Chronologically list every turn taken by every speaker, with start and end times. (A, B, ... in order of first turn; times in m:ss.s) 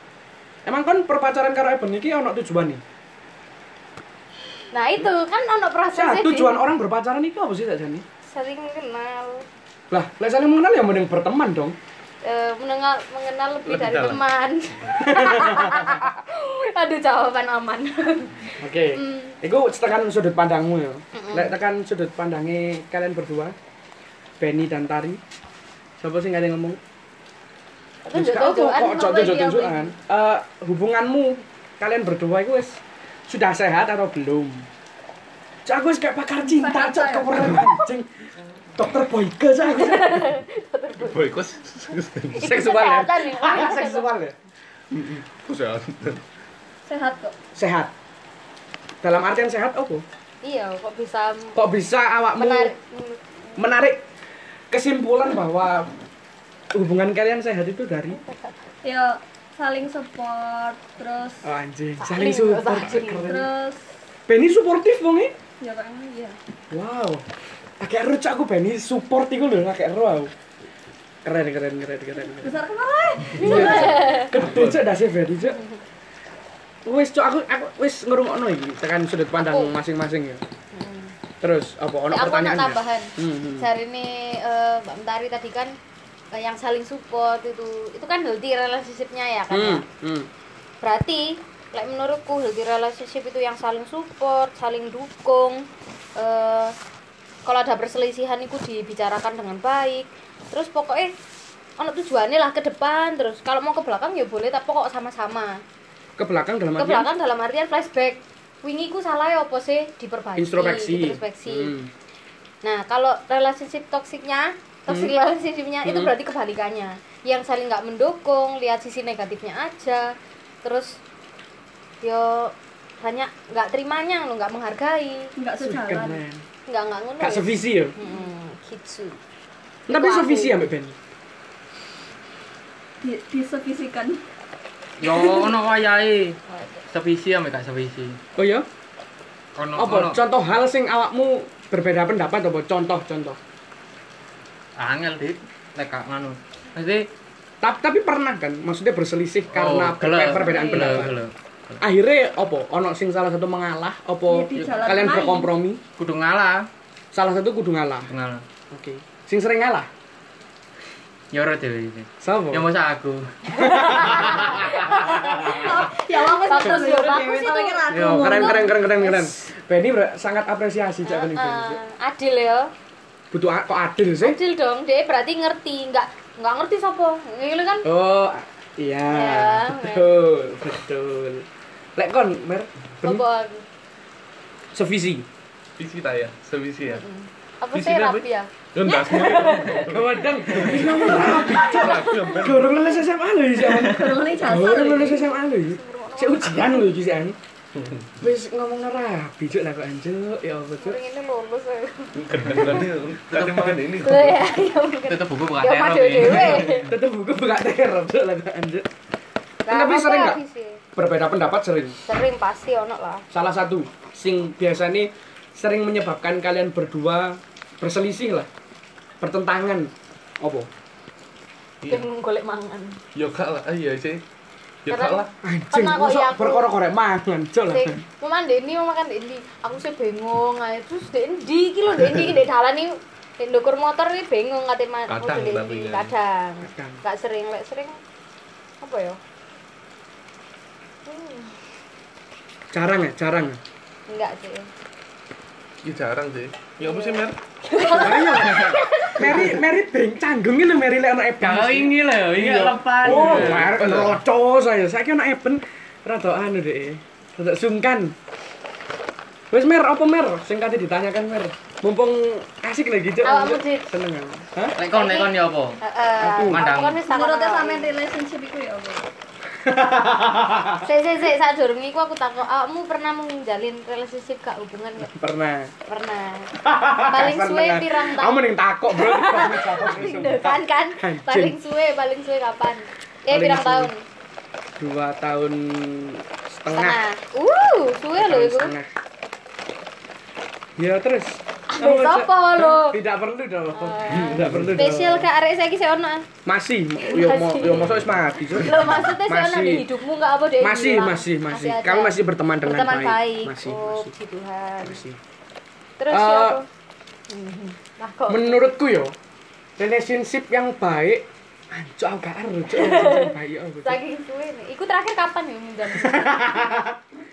0:00.6-0:02.8 A
0:04.7-0:06.6 B
0:05.9-0:08.0 A
0:08.3-0:09.5 B
0:09.9-0:11.8 A
0:12.2-0:19.4 B
0:13.7-0:14.2 C
0:15.0-0:15.9 A
0:18.6-0:23.6 A
0:21.1-0:21.5 B
0:24.4-0:25.2 A
0:26.0-0:26.8 A
0:28.0-0:29.9 B
0:28.1-0:34.7 A
0:35.6-0:38.1 A
0:36.4-0:37.5 D
0:38.8-0:40.4 A
0:39.7-0:41.3 B
0:41.0-0:42.5 C
0:42.4-0:44.1 B
0:42.4-0:44.4 A
0:44.9-0:46.2 C
0:46.8-0:47.4 D
0:47.6-0:47.9 A
0:49.0-0:50.0 A
0:50.4-0:51.6 B
0:51.6-0:52.7 A
0:52.4-0:53.6 B
0:53.6-0:54.1 A
0:54.7-0:55.9 A
0:56.7-0:58.2 A
0:58.2-0:58.6 B
0:58.8-1:01.5 D
1:01.4-1:03.5 A
1:02.0-1:03.3 B
1:03.3-1:03.9 D
1:04.3-1:05.4 A
1:05.6-1:06.4 D
1:06.7-1:07.2 A
1:07.8-1:10.3 A
1:11.2-1:12.6 A
1:12.3-1:14.1 D
1:13.4-1:15.6 A
1:13.4-1:14.3 B
1:13.4-1:14.9 C
1:15.5-1:15.8 B
1:16.9-1:20.4 A
1:19.4-1:19.8 B
1:20.7-1:21.2 B
1:21.4-1:23.7 A
1:22.1-1:25.8 B
1:26.3-1:29.9 B
1:29.5-1:30.3 A
1:30.8-1:36.8 B
1:37.4-1:41.1 B
1:41.8-1:45.6 B
1:46.2-1:47.1 A
1:46.8-1:51.8 B
1:50.4-1:51.9 A
1:52.6-2:01.0 B
1:55.8-1:56.1 A
2:02.0-2:05.3 B
2:05.4-2:06.2 D
2:05.6-2:06.4 A
2:06.7-2:09.2 B
2:07.2-2:08.0 A
2:09.9-2:11.0 A
2:09.9-2:10.6 B
2:13.0-2:14.2 D
2:15.0-2:16.4 E
2:16.5-2:16.8 B
2:16.9-2:18.2 E
2:18.4-2:18.7 A
2:19.6-2:20.2 E
2:19.8-2:23.4 A
2:24.8-2:27.1 E
2:27.6-2:31.2 A
2:29.5-2:31.8 E
2:30.4-2:31.0 B
2:31.8-2:35.8 A
2:34.3-2:35.5 D
2:36.0-2:36.7 E
2:37.1-2:38.1 A
2:38.1-2:38.4 E
2:38.7-2:39.9 A
2:41.3-2:43.4 E
2:42.2-2:42.6 A
2:43.5-2:49.5 B
2:43.6-2:45.8 A
2:44.9-2:48.8 D
2:47.9-2:51.8 A
2:51.0-2:52.7 B
2:53.3-2:54.4 A
2:54.2-2:57.9 B
2:57.8-3:01.5 A
2:59.1-3:00.1 B
3:02.0-3:03.2 A
3:03.0-3:03.6 B
3:04.7-3:05.3 A
3:05.8-3:07.0 C
3:06.9-3:10.0 B
3:07.7-3:12.9 C
3:09.9-3:17.4 A
3:10.6-3:12.3 B
3:13.8-3:15.2 D
3:15.1-3:16.9 B
3:17.8-3:18.0 C
3:18.2-3:21.0 A
3:20.8-3:22.2 B
3:22.2-3:24.7 C
3:23.3-3:23.8 E
3:24.0-3:26.9 B
3:25.1-3:26.8 E
3:26.7-3:28.9 A
3:29.7-3:30.8 B
3:29.7-3:30.4 A
3:31.0-3:32.0 A
3:32.1-3:33.2 B
3:33.3-3:38.5 A
3:39.2-3:40.7 A
3:41.8-3:42.1 C
3:41.9-3:43.0 B
3:43.2-3:44.2 C
3:44.8-3:45.3 C
3:44.9-3:46.7 B
3:45.4-3:48.0 A
3:47.7-3:58.0 B
3:55.1-3:56.1 C
3:56.6-3:57.0 A
3:58.8-3:59.2 B
4:01.1-4:01.6 B
4:02.7-4:03.6 A
4:04.1-4:04.7 B
4:05.8-4:08.7 C
4:06.8-4:09.5 B
4:07.9-4:12.0 A
4:11.4-4:13.7 E
4:12.3-4:14.2 C
4:13.0-4:18.2 A
4:19.5-4:24.8 A
4:23.2-4:23.9 B
4:24.8-4:25.8 E
4:24.9-4:27.9 B
4:26.2-4:26.6 A
4:26.5-4:27.0 E
4:27.1-4:29.1 D
4:29.6-4:30.9 A
4:30.8-4:35.1 B
4:35.0-4:35.7 A
4:35.9-4:44.0 B
4:36.6-4:41.6 A
4:43.3-4:43.9 A
4:44.8-4:47.0 A
4:46.7-4:48.7 B
4:48.2-4:48.9 A
4:50.8-4:55.3 A
4:51.7-4:53.0 B
4:53.7-4:56.3 B
4:54.3-4:54.7 C
4:56.5-4:59.9 A
4:57.0-5:05.0 B
4:57.6-4:58.2 C
5:00.6-5:04.1 A
5:04.8-5:05.2 A
5:06.0-5:06.7 B
5:06.1-5:06.6 A
5:07.3-5:08.6 B
5:08.3-5:09.2 A
5:09.8-5:14.0 A
5:12.7-5:16.9 B
5:16.1-5:16.7 A